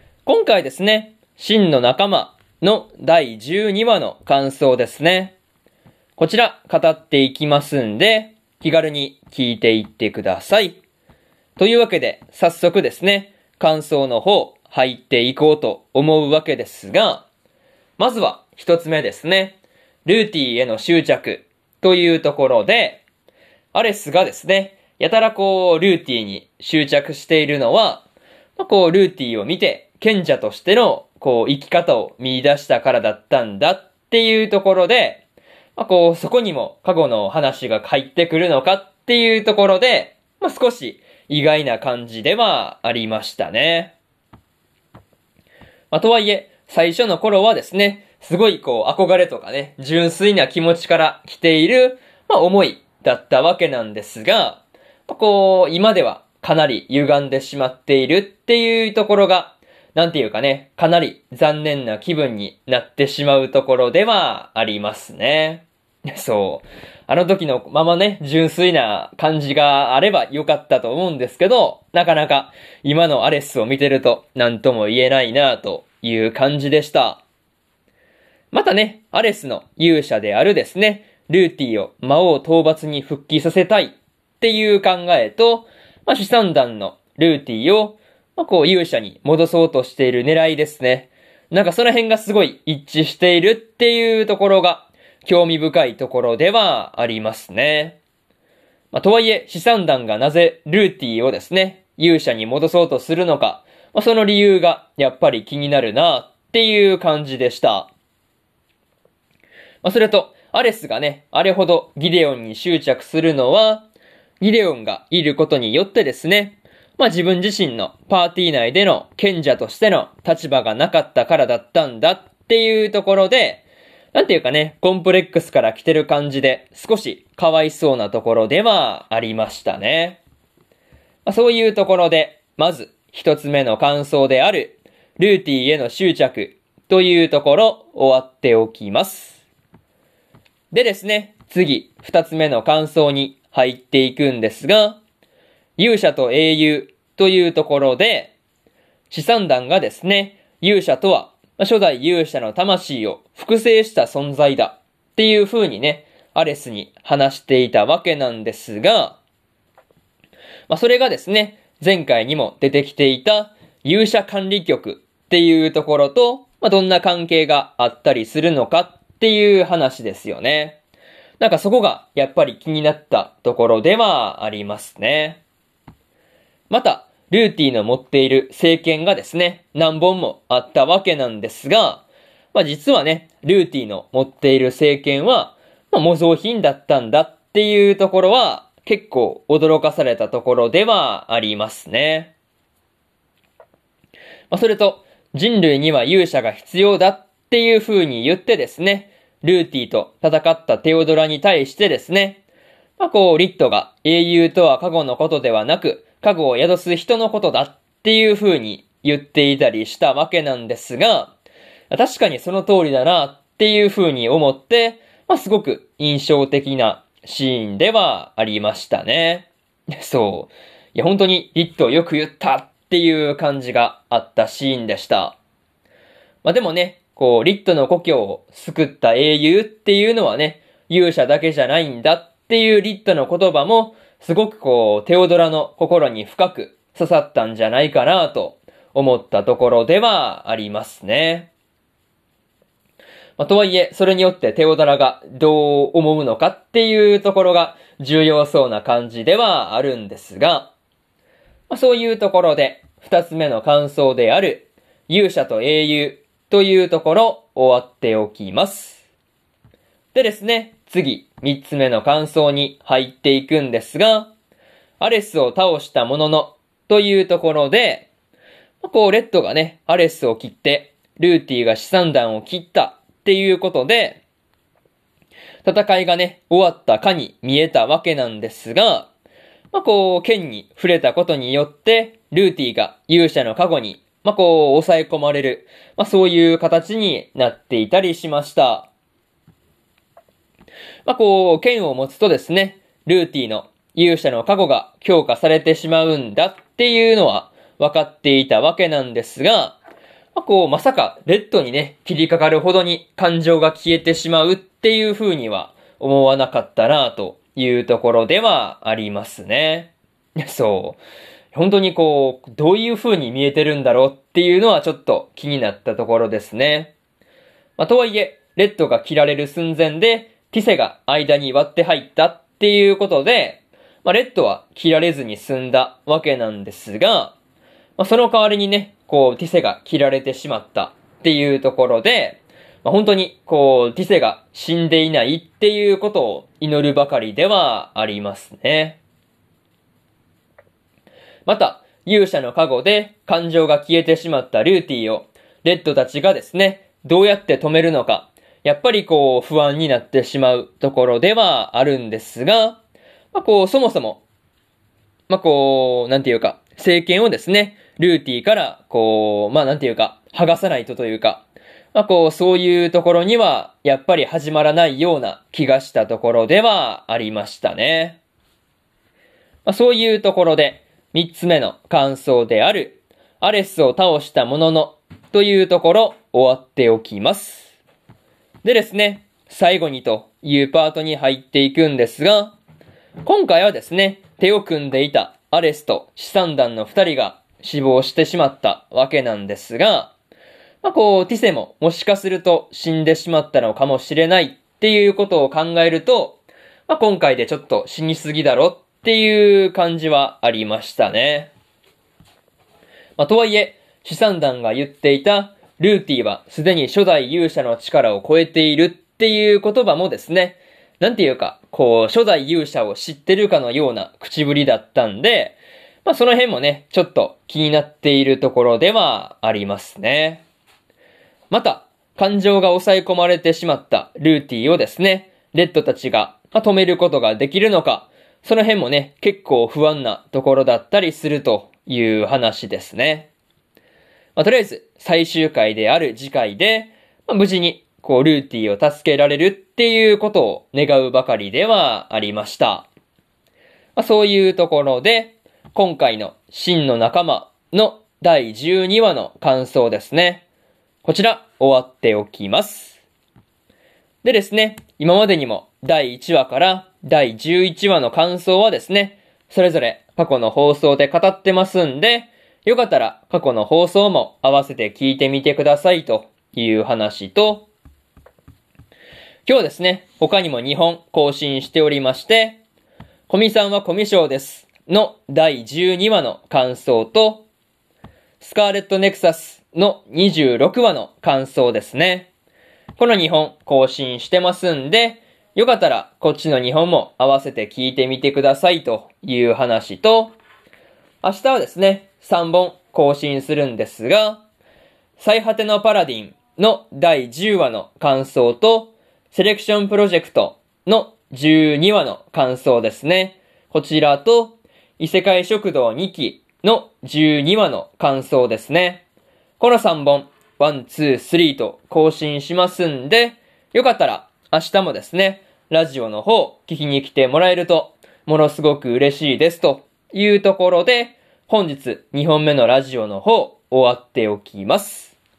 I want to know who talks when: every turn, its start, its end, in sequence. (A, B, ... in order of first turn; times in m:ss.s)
0:00.2-0:05.4 A
0:06.2-0:10.8 A
0:11.6-0:17.3 A
0:18.0-0:23.0 A
0:23.7-0:28.1 A
0:28.6-0:35.2 A
0:35.8-0:44.0 A
0:45.9-1:17.2 A
1:18.5-1:38.0 A
1:38.9-1:47.9 A
1:49.8-1:53.9 A
1:54.4-2:10.2 A
2:11.3-2:19.4 A
2:20.7-2:25.0 A
2:25.8-2:28.4 A
2:29.1-2:39.2 A
2:40.7-2:50.8 A
2:51.4-2:55.4 A
2:56.7-3:12.3 A
3:14.5-3:22.4 A
3:23.0-3:31.4 A
3:31.9-3:45.4 A
3:46.4-4:01.5 A
4:03.4-4:10.7 A
4:11.7-4:19.0 A
4:20.1-4:24.3 A
4:25.0-4:28.1 A
4:28.8-4:34.2 A
4:35.6-4:39.1 A
4:39.7-4:48.9 A
4:51.1-4:59.8 A
5:00.4-5:11.0 A
5:11.5-5:16.9 A
5:17.8-5:27.4 A
5:28.0-5:39.0 A
5:41.5-5:52.8 A
5:53.3-5:54.2 A
5:55.3-6:08.2 A
6:09.6-6:17.8 A
6:18.6-6:22.6 A
6:23.2-6:30.1 A
6:30.8-6:41.5 A
6:43.2-7:00.4 A
7:01.5-7:13.3 A
7:14.4-7:22.9 A
7:24.0-7:30.4 A
7:31.0-7:33.0 A
7:34.2-7:47.7 A
7:49.5-7:52.6 A
7:53.3-7:57.5 A
7:58.4-8:02.3 A
8:03.0-8:10.4 A
8:11.2-8:14.4 A
8:15.2-8:29.0 A
8:29.6-8:45.2 A